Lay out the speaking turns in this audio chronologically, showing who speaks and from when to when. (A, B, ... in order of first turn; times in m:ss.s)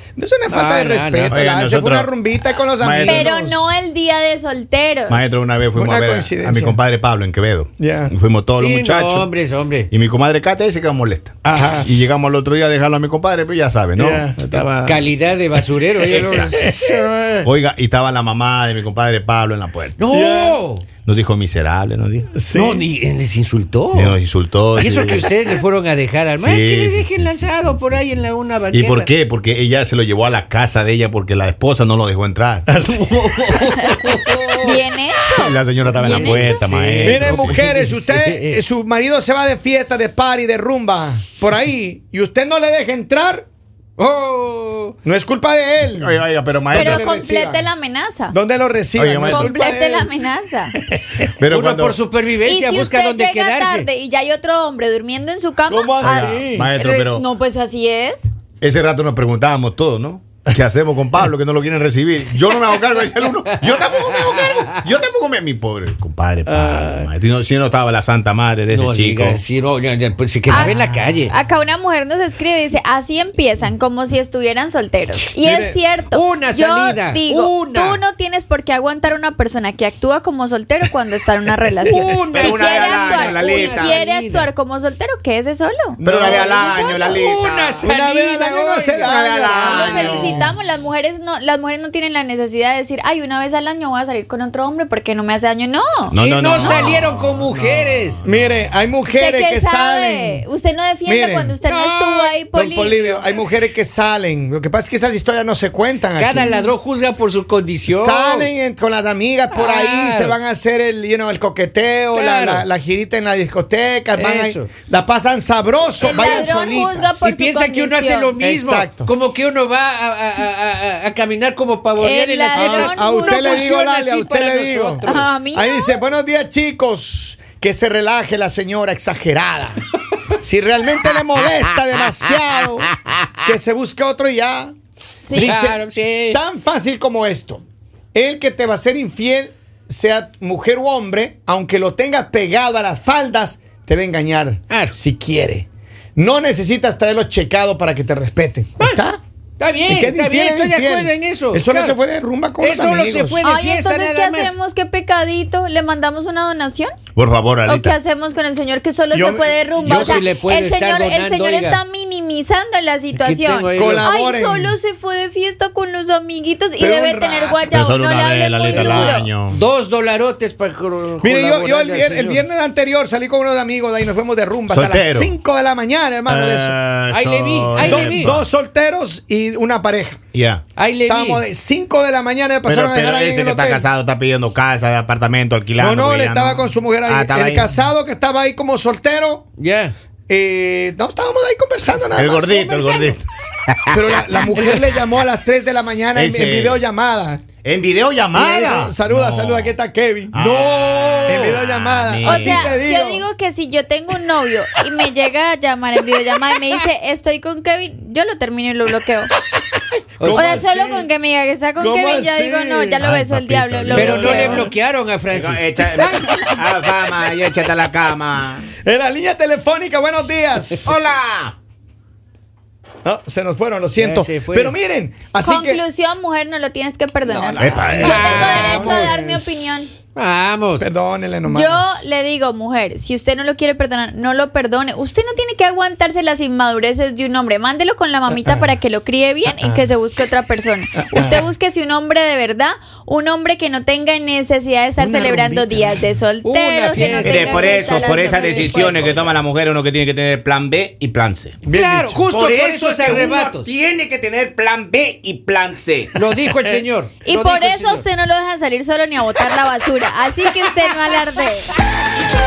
0:00.2-0:03.7 A
0:00.5-0:01.4 B
0:01.3-0:02.1 C
0:02.8-0:03.3 C
0:03.0-0:05.3 D
0:05.1-0:09.3 C
0:05.7-0:06.8 A
0:07.8-0:08.1 A
0:08.5-0:09.9 B
0:09.9-0:15.1 C
0:11.4-0:11.9 A
0:14.0-0:14.3 A
0:14.8-0:17.5 B
0:16.1-0:16.7 C
0:17.4-0:20.0 C
0:20.0-0:20.8 B
0:20.1-0:20.6 A
0:21.0-0:22.3 C
0:22.3-0:22.8 A
0:22.5-0:24.2 B
0:23.9-0:25.3 C
0:24.8-0:29.1 B
0:26.4-0:28.0 C
0:28.7-0:32.7 C
0:32.7-0:33.5 A
0:32.8-0:34.8 B
0:34.6-0:36.7 D
0:35.4-0:37.7 C
0:36.0-0:38.6 B
0:37.0-0:43.4 A
0:44.0-0:44.9 B
0:45.0-0:46.2 A
0:45.8-0:47.0 C
0:46.7-0:47.7 A
0:46.7-0:48.4 D
0:48.3-0:50.1 A
0:49.0-0:49.5 C
0:49.2-0:50.8 D
0:51.4-0:52.0 C
0:51.4-0:53.9 B
0:52.4-0:58.3 D
0:55.7-0:56.7 A
0:56.0-0:57.2 C
0:58.6-1:09.4 C
1:03.6-1:04.8 B
1:06.4-1:07.1 A
1:08.7-1:11.3 B
1:10.5-1:27.8 D
1:15.4-1:15.8 A
1:16.1-1:18.0 B
1:21.9-1:24.5 B
1:22.3-1:24.0 C
1:26.0-1:27.1 A
1:26.0-1:27.6 C
1:27.0-1:29.2 B
1:27.8-1:30.5 A
1:29.0-1:30.4 C
1:29.6-1:36.8 D
1:36.1-1:38.7 C
1:36.2-1:38.2 B
1:38.2-1:40.4 A
1:39.1-1:43.4 D
1:41.0-1:41.6 A
1:41.6-1:42.3 B
1:42.5-1:46.5 A
1:46.2-1:48.5 B
1:46.4-1:46.7 D
1:47.9-1:57.1 A
1:49.5-1:50.3 B
1:52.1-1:52.6 B
1:54.1-1:54.7 B
1:56.0-1:58.3 D
1:56.0-1:56.5 B
1:57.2-2:05.0 B
1:58.4-1:59.1 A
2:02.0-2:03.7 D
2:02.5-2:09.8 A
2:05.0-2:06.0 D
2:10.3-2:14.7 A
2:15.3-2:15.5 D
2:15.3-2:17.6 A
2:15.3-2:16.4 B
2:18.1-2:29.2 A
2:24.7-2:24.9 B
2:28.8-2:29.0 B
2:29.6-2:32.0 B
2:29.9-2:33.4 A
2:32.6-2:34.6 B
2:33.4-2:36.9 D
2:37.1-2:37.9 C
2:37.6-2:49.3 D
2:39.1-2:40.2 A
2:39.8-2:41.8 B
2:43.2-2:44.0 B
2:43.7-2:44.8 A
2:46.8-2:47.7 A
2:47.7-2:49.6 C
2:48.7-2:52.4 B
2:51.2-2:56.7 A
2:54.7-2:55.3 C
2:56.3-2:58.4 C
2:57.1-2:58.4 B
2:57.8-3:00.2 A
3:00.3-3:00.6 C
3:00.8-3:01.4 B
3:01.1-3:03.9 A
3:02.6-3:07.7 C
3:05.8-3:09.4 A
3:09.6-3:09.9 B
3:10.3-3:13.2 A
3:12.1-3:14.0 C
3:13.9-3:17.4 A
3:16.1-3:16.8 C
3:17.6-3:19.7 C
3:18.3-3:20.4 A
3:20.3-3:22.8 C
3:20.4-3:21.6 B
3:21.3-3:23.2 A
3:22.2-3:29.3 D
3:30.2-3:30.6 B
3:30.2-3:31.1 A
3:30.3-3:34.7 D
3:31.8-3:33.2 A
3:33.0-3:34.2 C
3:33.9-3:34.7 A
3:33.9-3:36.5 B
3:35.3-3:38.7 C
3:38.8-3:40.9 A
3:40.8-3:41.5 C
3:43.0-3:45.8 A
3:44.0-3:44.7 B
3:45.4-3:49.9 D
3:47.2-3:49.5 A
3:47.6-3:48.7 C
3:48.0-3:49.2 B
3:50.1-3:50.8 B
3:50.8-3:52.0 A
3:51.4-4:09.2 D
3:59.4-3:59.8 A
4:01.0-4:01.5 A
4:05.0-4:06.1 A
4:06.4-4:09.3 B
4:07.2-4:11.6 C
4:11.6-4:12.2 A
4:11.7-4:13.7 B
4:12.2-4:16.2 C
4:16.1-4:18.0 B
4:17.2-4:21.7 D